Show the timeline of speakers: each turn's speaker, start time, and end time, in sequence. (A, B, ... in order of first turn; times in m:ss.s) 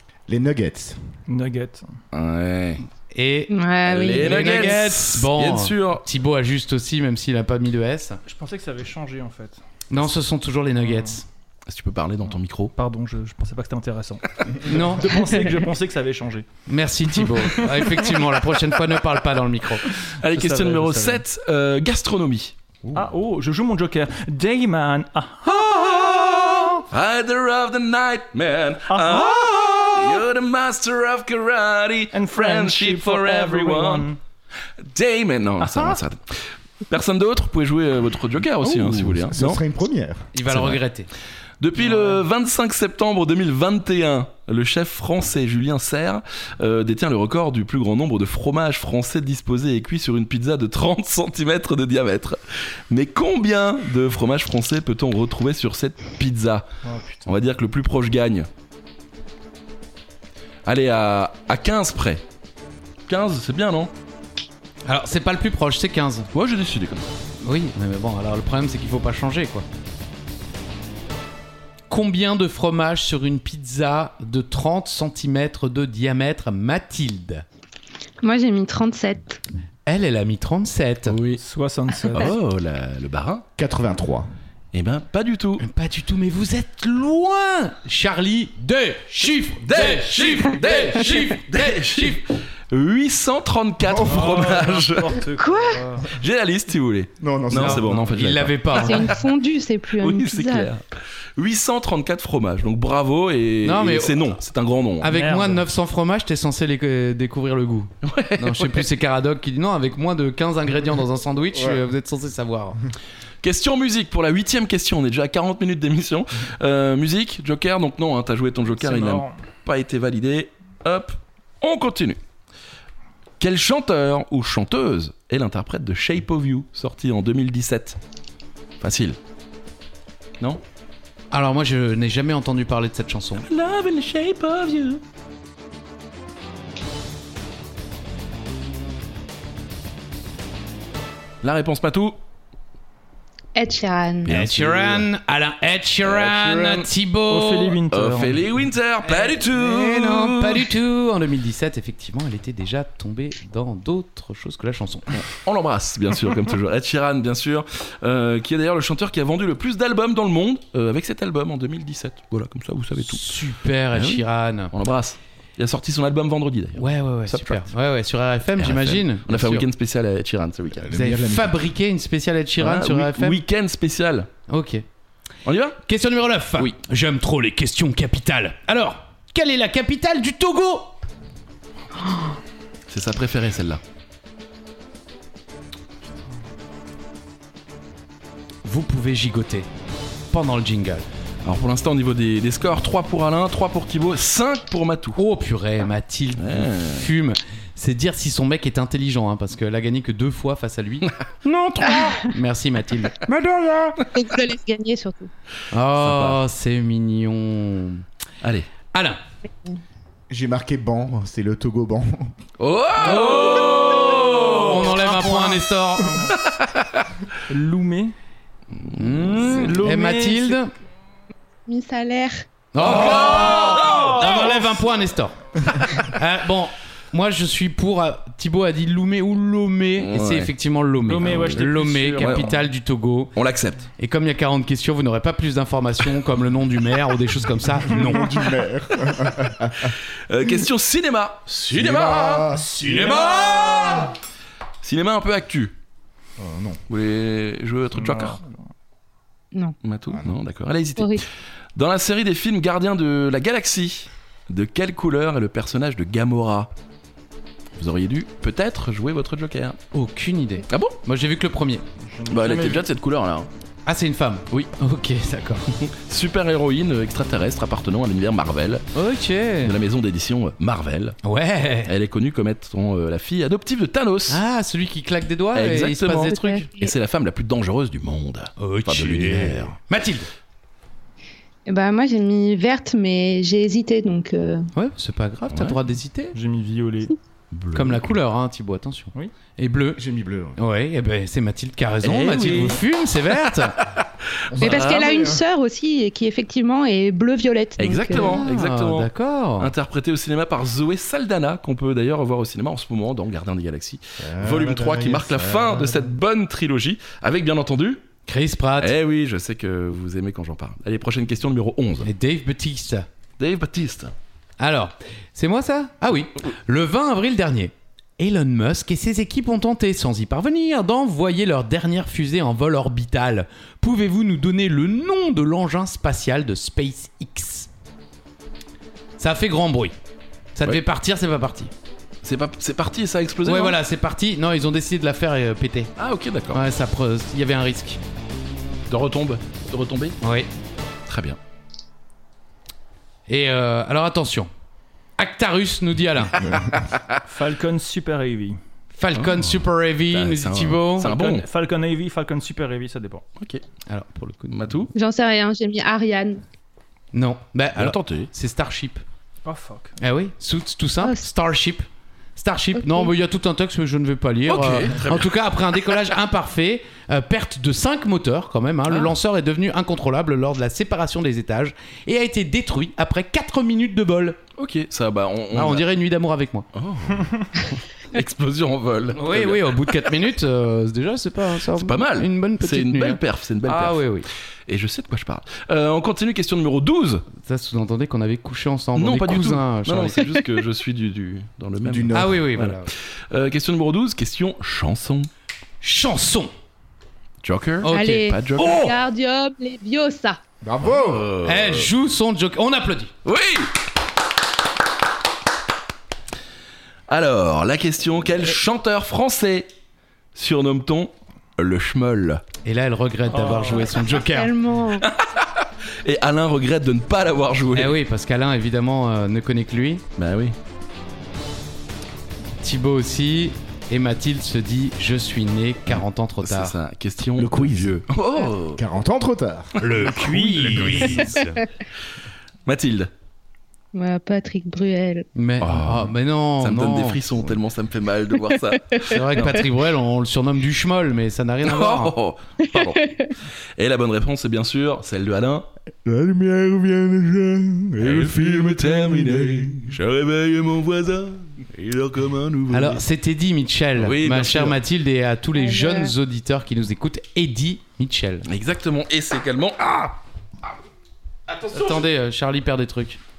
0:00.3-0:01.0 A
0:01.3-0:01.9 B
0:02.1-0:02.8 C
0:03.1-0:08.2 D
0:03.5-0:04.7 E
0:03.8-0:06.0 C
0:08.2-0:09.6 B
0:09.9-0:11.2 D
0:11.7-0:12.7 C
0:12.8-0:16.5 B
0:14.6-0:15.4 D
0:16.6-0:19.9 D
0:17.3-0:18.2 B
0:20.2-0:22.5 C
0:20.3-0:21.2 B
0:22.8-0:23.1 A
0:22.9-0:26.8 B
0:25.7-0:26.6 D
0:26.9-0:34.1 C
0:28.9-0:29.9 B
0:32.1-0:34.2 B
0:34.8-0:39.6 C
0:35.6-0:36.0 B
0:38.6-0:40.3 A
0:40.3-0:41.1 D
0:40.4-0:40.8 C
0:41.6-0:56.7 C
0:41.8-0:42.2 B
0:56.8-0:57.2 B
0:57.2-0:58.5 C
1:00.6-1:02.2 C
1:03.1-1:03.9 C
1:04.8-1:06.3 D
1:06.3-1:07.1 C
1:07.4-1:09.6 D
1:11.9-1:17.4 D
1:18.2-1:19.4 E
1:19.8-1:21.2 D
1:21.0-1:21.4 C
1:21.4-1:22.3 B
1:22.1-1:23.4 C
1:23.6-1:24.3 A
1:24.7-1:25.7 C
1:25.6-1:32.2 D
1:29.6-1:35.2 C
1:33.9-1:34.4 A
1:34.0-1:36.1 B
1:35.4-1:35.8 E
1:36.1-1:39.2 C
1:37.2-1:38.0 A
1:37.5-1:39.2 D
1:38.7-1:40.7 E
1:40.0-1:40.8 C
1:41.4-1:45.2 C
1:43.6-1:44.4 D
1:45.0-1:52.8 D
1:45.1-1:45.6 B
1:48.0-1:48.9 C
1:53.4-2:02.2 C
1:58.8-1:59.4 B
2:03.4-2:08.0 C
2:08.8-2:09.2 C
2:11.3-2:13.4 D
2:13.4-2:15.0 C
2:21.4-2:22.2 C
2:23.5-2:24.3 E
2:24.2-2:25.1 C
2:24.2-2:27.8 D
2:26.0-2:26.9 C
2:27.3-2:28.5 B
2:27.9-2:30.7 C
2:29.4-2:35.2 D
2:35.1-2:43.3 C
2:43.0-2:44.7 D
2:43.9-2:47.7 C
2:46.8-2:49.7 D
2:48.6-2:50.9 C
2:50.8-2:51.6 A
2:50.9-2:53.4 D
2:52.6-2:54.3 C
2:54.5-2:54.8 D
2:55.4-2:55.8 C
2:55.8-3:00.9 D
3:02.9-3:03.8 C
3:08.6-3:09.7 D
3:10.3-3:11.1 D
3:11.4-3:15.2 C
3:15.2-3:24.0 D
3:16.4-3:17.1 C
3:24.0-3:25.3 E
3:25.7-3:28.0 D
3:25.9-3:26.4 C
3:28.4-3:28.7 C
3:28.9-3:29.2 D
3:30.3-3:32.3 A
3:32.6-3:35.1 C
3:33.0-3:36.3 D
3:34.5-3:36.3 B
3:36.3-3:37.1 C
3:37.5-3:38.1 B
3:38.8-3:39.7 C
3:38.9-3:40.7 D
3:39.5-3:40.6 B
3:41.7-3:42.5 E
3:42.7-3:53.3 D
3:42.8-3:44.5 C
3:43.0-3:44.7 B
3:50.0-3:50.5 C
3:51.1-3:52.6 B
3:51.2-3:51.6 C
3:52.2-3:52.5 C
3:53.3-3:53.9 C
3:54.0-3:58.4 D
3:57.8-3:59.9 A
3:59.9-4:03.3 C
4:01.7-4:04.0 A
4:02.8-4:04.1 D
4:04.8-4:05.7 C
4:06.4-4:06.8 A
4:06.9-4:08.4 C
4:08.0-4:08.6 B
4:09.8-4:16.7 C
4:17.8-4:19.8 C
4:19.9-4:21.8 D
4:20.7-4:21.0 C
4:22.0-4:22.9 B
4:22.3-4:23.5 C
4:23.8-4:25.7 D
4:25.7-4:28.9 C
4:28.9-4:29.7 D
4:29.6-4:31.2 C
4:31.2-4:31.9 D
4:31.8-4:34.4 C
4:34.3-4:36.7 D
4:35.5-4:39.7 C
4:36.2-4:36.7 E
4:38.6-4:40.3 D
4:41.6-4:44.7 E
4:44.7-4:46.4 D
4:45.5-4:45.8 C
4:46.3-4:47.1 B
4:47.5-4:48.1 C
4:47.7-4:50.0 D
4:50.0-4:50.6 A
4:50.6-4:53.8 D
4:52.0-4:52.8 C
4:54.5-4:55.4 A
4:54.6-4:55.3 C
4:54.6-4:58.4 E
4:57.8-5:08.0 C
4:58.1-4:59.7 D
5:04.2-5:06.1 A
5:08.2-5:08.9 D
5:08.8-5:12.1 C
5:12.0-5:13.1 D
5:13.4-5:14.1 C
5:14.6-5:27.7 D
5:29.2-5:29.9 D
5:30.5-5:31.7 D
5:32.2-5:33.8 C
5:33.4-5:35.9 D
5:36.0-5:36.6 C
5:36.5-5:38.0 D
5:38.9-5:40.2 C
5:40.2-5:40.5 D
5:41.1-5:41.4 C
5:43.3-5:44.5 D
5:45.2-5:46.7 D
5:46.9-5:47.2 C
5:47.2-5:48.6 B
5:48.9-5:51.1 D
5:49.2-5:51.4 C
5:51.0-5:53.2 B
5:53.9-5:54.7 D
5:54.5-5:54.9 C
5:54.9-5:56.4 E
5:57.1-5:59.0 D
5:57.8-5:58.3 C
5:59.4-6:00.0 B
6:00.0-6:01.8 D
6:02.4-6:14.4 D
6:04.5-6:05.3 C
6:14.6-6:15.8 C
6:15.5-6:16.7 D
6:16.7-6:19.8 C
6:19.1-6:24.3 D
6:21.8-6:24.0 C
6:24.7-6:27.3 C
6:27.4-6:30.2 D
6:28.9-6:35.3 C
6:31.8-6:32.4 A
6:32.1-6:32.9 D
6:35.8-6:36.5 D
6:37.4-6:38.8 C
6:37.8-6:38.9 D
6:37.8-6:40.4 E
6:40.6-6:41.3 A
6:40.8-6:41.9 C
6:41.4-6:43.1 D
6:43.2-6:43.7 C
6:47.1-6:49.7 C
6:50.3-6:52.4 C
6:52.6-6:54.5 D
6:53.3-6:53.9 B
6:53.7-6:55.1 E
6:55.0-6:58.0 C
6:57.7-7:00.0 D
7:00.2-7:00.6 C
7:02.6-7:06.7 D
7:06.4-7:08.8 C
7:07.4-7:08.0 A
7:08.7-7:10.1 A
7:09.8-7:11.6 D
7:10.1-7:11.4 B
7:10.7-7:11.6 A
7:12.6-7:13.1 C
7:13.9-7:15.2 E
7:15.3-7:17.3 D
7:15.6-7:19.6 C
7:19.0-7:22.1 D
7:21.6-7:23.1 C
7:22.7-7:23.3 E
7:23.8-7:25.7 C
7:26.0-7:29.9 A
7:28.0-7:33.0 C
7:32.7-7:38.5 D
7:34.0-7:34.8 C
7:35.5-7:36.1 E
7:38.4-7:40.2 C
7:41.5-7:41.8 C
7:41.7-7:43.2 D